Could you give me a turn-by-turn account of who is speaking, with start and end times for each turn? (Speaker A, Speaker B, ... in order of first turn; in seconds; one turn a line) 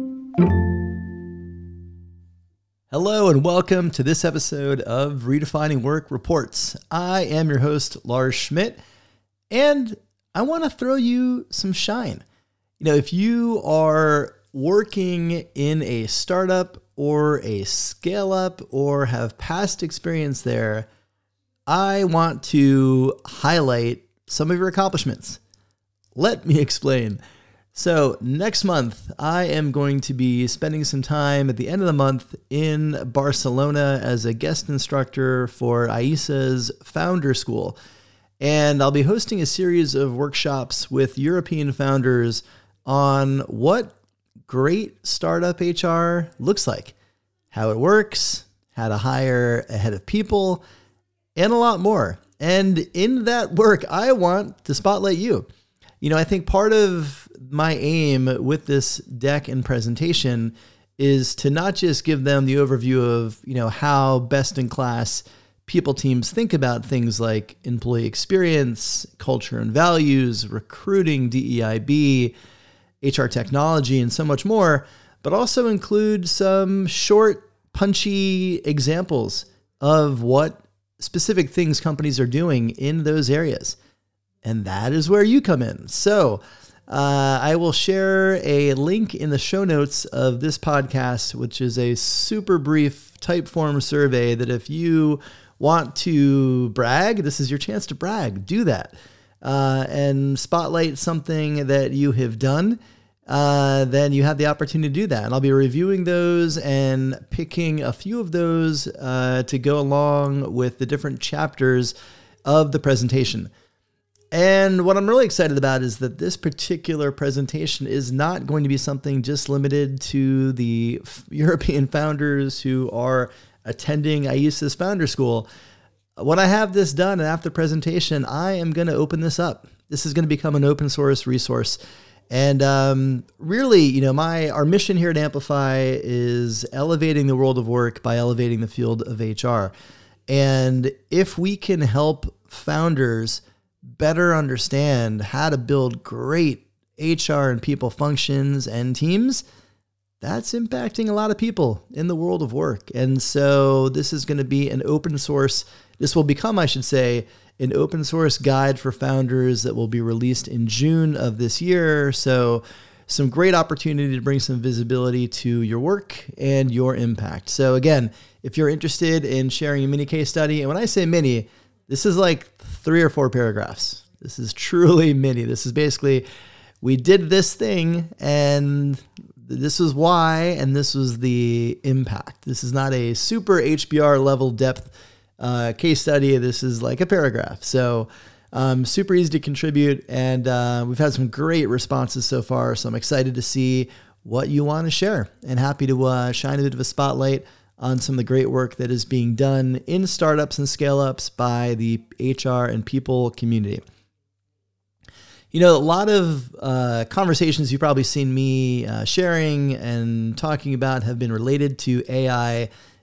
Speaker A: 2.9-8.8
Speaker A: 9.5-12.2
Speaker A: 12.8-20.9
Speaker A: 21.7-25.4
Speaker A: 26.1-27.2
Speaker A: 27.8-37.8
Speaker A: 38.4-44.0
Speaker A: 44.5-47.0
Speaker A: 47.5-50.6
Speaker A: 51.4-55.5
Speaker A: 56.0-72.3
Speaker A: 73.0-83.8
Speaker A: 84.4-111.9
Speaker A: 112.5-113.5
Speaker A: 114.3-125.5
Speaker A: 126.2-131.8
Speaker A: 132.3-139.7
Speaker A: 140.3-149.4
Speaker A: 150.2-176.2
Speaker A: 176.8-203.8
Speaker A: 205.5-212.7